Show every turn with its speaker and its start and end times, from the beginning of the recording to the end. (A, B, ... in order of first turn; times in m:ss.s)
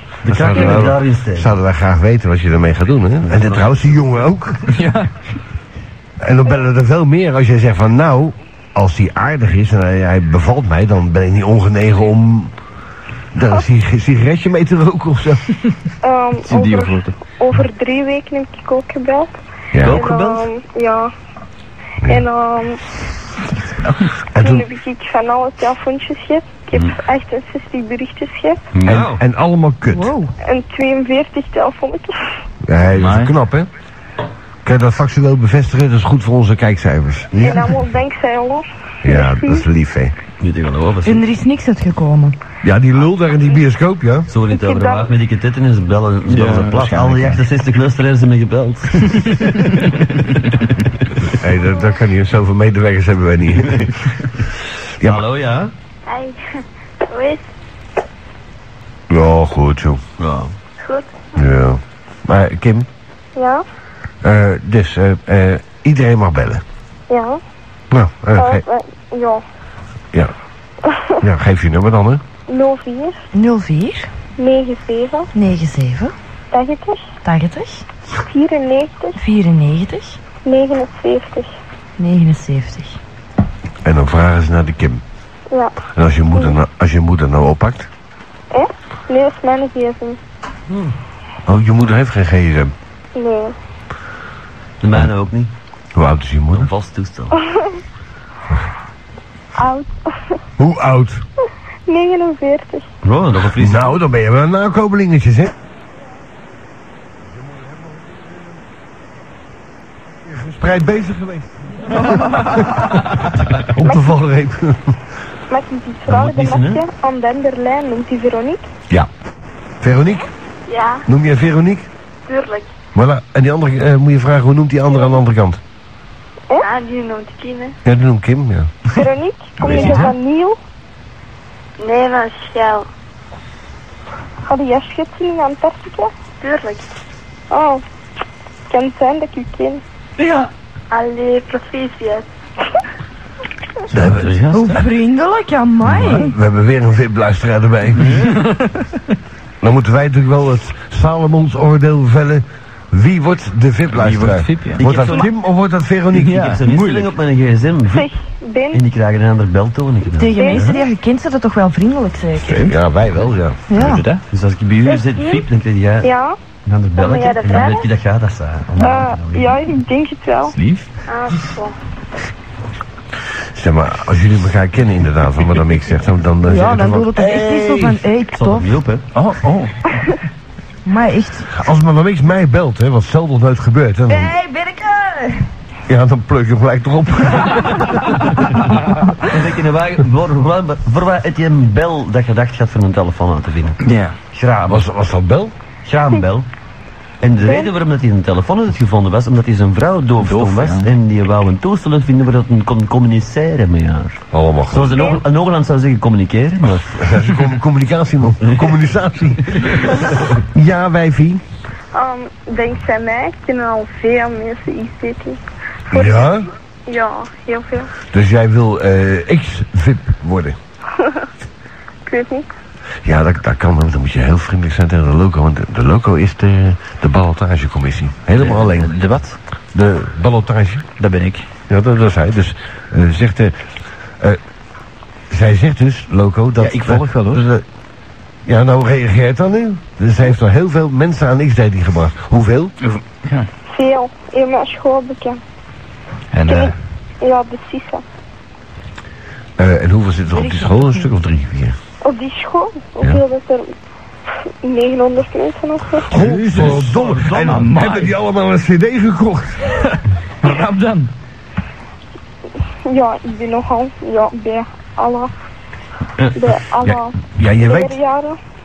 0:00.2-0:04.6 A
0:00.2-0:01.5 B
0:03.3-0:04.0 B
0:04.7-0:05.1 C
0:06.2-0:12.5 A
0:13.3-0:15.4 A
0:16.0-0:21.1 D
0:16.4-0:17.1 C
0:19.7-0:20.0 A
0:19.8-0:20.5 B
0:22.0-0:22.8 D
0:24.3-0:24.6 A
0:24.4-0:28.6 D
0:28.7-0:29.2 B
0:28.8-0:30.1 A
0:29.9-0:30.3 E
0:30.4-0:32.1 D
0:32.6-0:33.7 A
0:33.0-0:33.3 C
0:34.6-0:37.4 A
0:37.3-0:37.6 B
0:37.4-0:39.6 D
0:39.0-0:40.1 A
0:40.4-0:41.2 B
0:41.0-0:42.4 E
0:42.6-0:44.3 A
0:44.3-0:49.5 B
0:44.5-0:45.1 D
0:46.3-0:47.4 C
0:51.4-0:53.9 A
0:53.6-0:53.9 B
0:55.0-0:55.7 B
0:56.1-0:56.4 F
0:57.1-0:57.4 F
0:59.1-1:00.0 A
1:00.2-1:00.5 B
1:00.8-1:01.1 F
1:01.3-1:02.9 A
1:03.4-1:03.6 D
1:04.2-1:06.6 A
1:07.1-1:07.4 D
1:07.9-1:08.6 A
1:08.4-1:09.4 D
1:11.2-1:12.2 A
1:12.5-1:13.2 D
1:13.3-1:14.1 E
1:14.4-1:15.3 D
1:15.3-1:16.1 E
1:16.5-1:17.0 D
1:17.2-1:17.8 E
1:18.2-1:19.2 D
1:19.2-1:20.2 E
1:20.4-1:21.5 D
1:22.0-1:23.0 E
1:23.8-1:25.0 A
1:25.5-1:25.8 D
1:25.9-1:27.9 A
1:28.5-1:30.2 D
1:30.7-1:30.9 B
1:31.4-1:32.7 A
1:33.1-1:33.5 D
1:34.8-1:35.5 B
1:35.9-1:36.7 A
1:36.5-1:37.4 B
1:39.6-1:40.1 D
1:40.6-1:41.2 A
1:41.9-1:42.9 D
1:43.0-1:44.0 B
1:43.6-1:45.5 A
1:47.9-1:48.2 A
1:50.2-1:55.0 A
1:53.8-1:54.1 D
1:55.5-1:58.7 D
1:56.1-1:56.8 B
1:59.8-2:00.3 A
2:00.7-2:01.0 F
2:01.1-2:01.9 A
2:02.3-2:02.7 F
2:02.9-2:05.6 A
2:06.6-2:07.8 F
2:07.8-2:08.7 A
2:08.9-2:10.6 D
2:09.7-2:10.1 C
2:09.7-2:10.0 F
2:11.8-2:12.8 F
2:14.5-2:16.1 D
2:16.4-2:16.9 F
2:17.5-2:17.8 D
2:18.7-2:19.8 D
2:20.9-2:22.2 F
2:23.9-2:24.4 A
2:24.5-2:26.3 E
2:25.8-2:28.3 A
2:28.0-2:28.4 C
2:29.6-2:36.4 A
2:33.9-2:34.8 C
2:34.8-2:35.3 B
2:36.1-2:37.1 C
2:36.3-2:38.1 B
2:37.9-2:38.8 D
2:38.7-2:40.4 B
2:40.2-2:42.6 E
2:40.3-2:40.8 D
2:42.4-2:43.6 A
2:42.5-2:42.7 C
2:43.7-2:44.0 E
2:43.7-2:44.2 C
2:44.3-2:46.1 B
2:44.9-2:45.4 D
2:46.0-2:46.3 D
2:46.6-2:49.6 B
2:47.0-2:47.8 F
2:48.8-2:50.5 D
2:50.5-2:50.8 C
2:51.1-2:51.7 F
2:53.5-2:57.2 A
2:56.4-2:58.7 E
2:57.5-2:59.0 B
2:59.1-2:59.7 C
3:00.8-3:01.5 E
3:01.5-3:04.3 A
3:04.1-3:05.4 E
3:05.9-3:07.9 A
3:09.2-3:13.8 B
3:13.8-3:14.2 C
3:14.3-3:14.8 B
3:14.6-3:15.5 A
3:15.8-3:16.5 B
3:17.2-3:27.0 B
3:17.4-3:17.7 D
3:20.2-3:20.9 C
3:24.3-3:25.1 A
3:24.9-3:25.2 D
3:27.0-3:31.4 A
3:31.9-3:35.4 D
3:35.9-3:36.3 D
3:35.9-3:36.5 A
3:36.9-3:37.9 D
3:38.1-3:40.6 A
3:42.0-3:42.4 D
3:43.0-3:49.0 A
3:48.4-3:49.4 C
3:49.7-3:50.9 A
3:51.0-3:51.4 C
3:51.7-3:53.5 A
3:55.3-3:57.6 A
3:56.6-3:57.4 C
3:58.4-4:02.7 A
4:02.8-4:03.5 C
4:03.7-4:05.4 D
4:06.3-4:06.7 C
4:07.2-4:08.0 D
4:09.6-4:11.7 A
4:10.3-4:11.1 E
4:12.0-4:13.7 D
4:14.6-4:16.2 D
4:16.1-4:19.7 A
4:16.3-4:16.9 C
4:17.1-4:17.6 B
4:17.4-4:18.1 C
4:20.4-4:21.1 C
4:22.9-4:25.3 D
4:26.3-4:28.4 D
4:26.8-4:28.0 A